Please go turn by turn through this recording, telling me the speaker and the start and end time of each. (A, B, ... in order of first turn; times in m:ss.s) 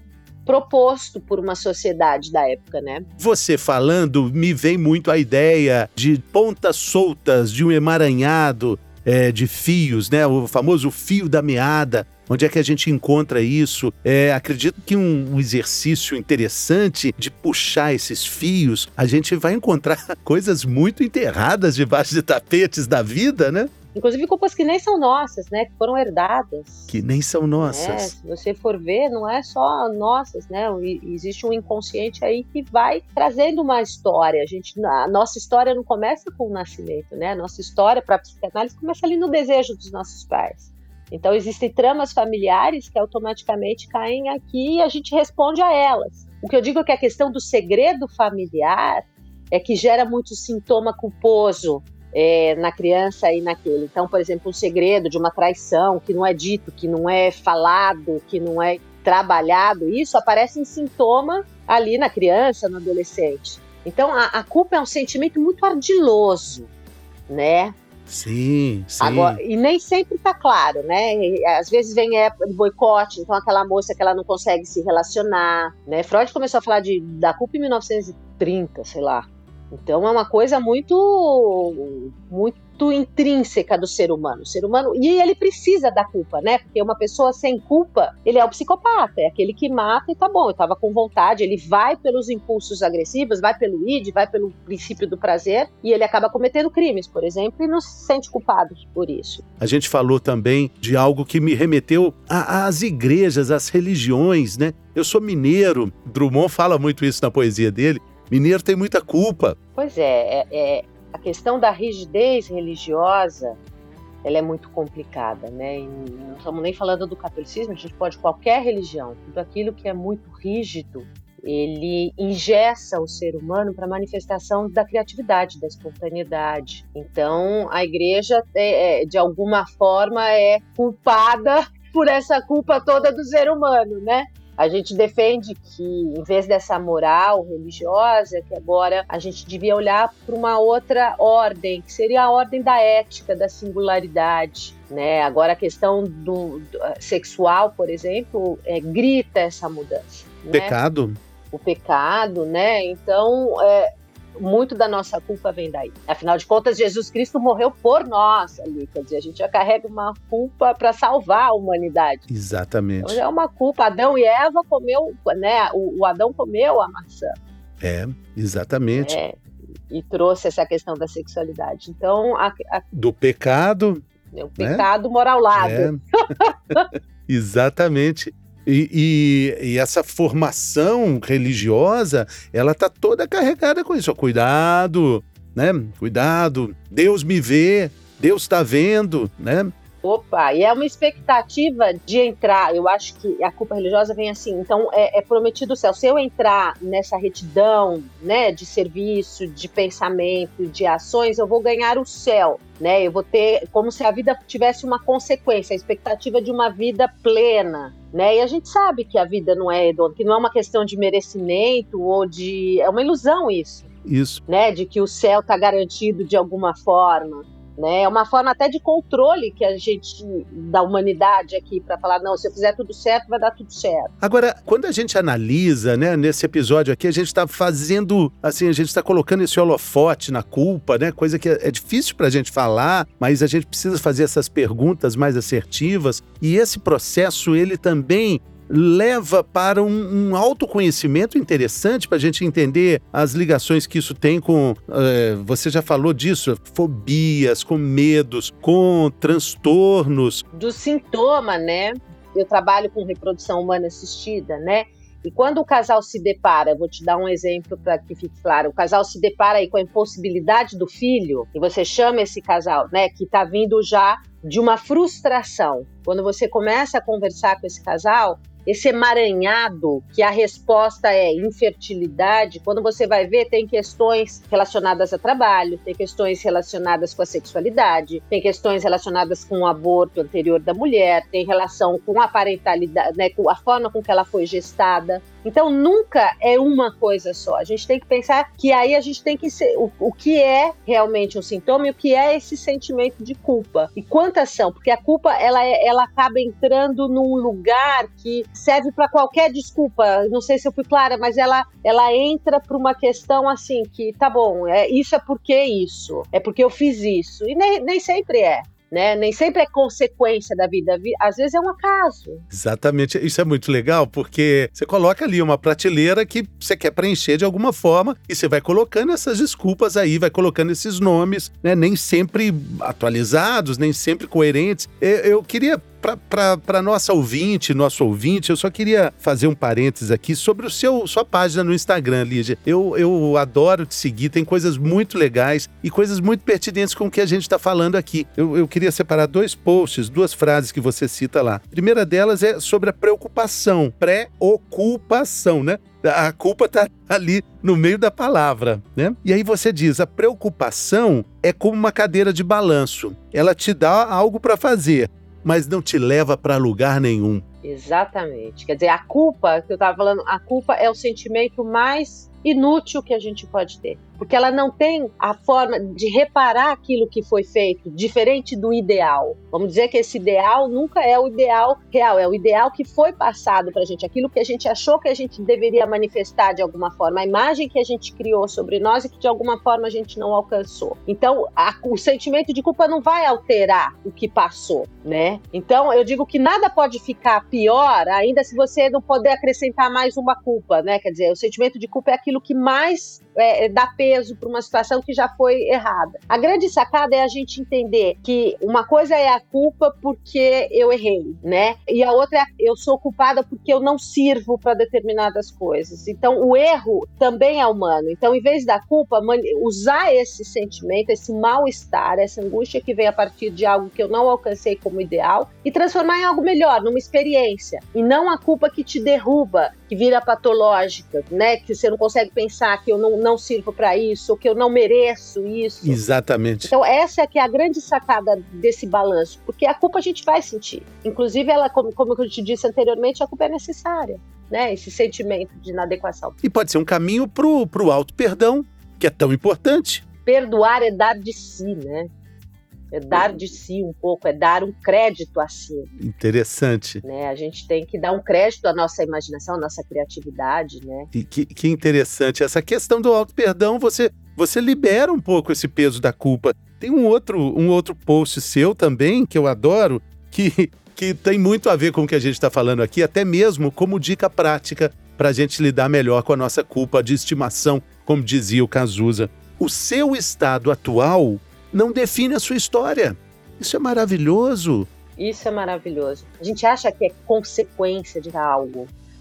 0:00.5-0:03.1 A
0:03.2-0:23.7 B
0:24.0-0:26.9 A
0:26.9-0:28.1 B
0:27.6-1:06.7 A
1:07.3-1:07.8 A
1:08.1-1:09.4 B
1:09.0-1:39.4 A
1:39.6-1:49.6 B
1:49.8-1:53.6 A
1:54.2-2:30.8 A
2:30.5-2:31.2 B
2:31.5-2:42.3 A
2:42.3-2:43.2 B
2:43.0-2:47.3 A
2:47.8-2:49.2 B
2:49.0-2:52.8 A
2:52.9-2:54.1 B
2:54.3-2:56.9 A
2:54.6-2:54.9 B
2:55.6-2:56.0 B
2:57.3-3:09.7 B
3:10.0-3:33.9 A
3:34.0-3:34.4 B
3:34.5-3:44.1 A
3:44.2-4:10.4 B
4:10.5-5:12.4 A
5:12.5-5:57.4 B
5:57.6-7:06.0 A
7:05.8-7:06.7 B
7:06.6-7:16.4 A
7:16.4-7:20.0 B
7:20.3-7:22.1 A
7:22.9-7:25.9 A
7:26.0-7:27.0 B
7:27.0-7:31.1 A
7:31.1-7:54.9 B
7:55.2-7:58.9 A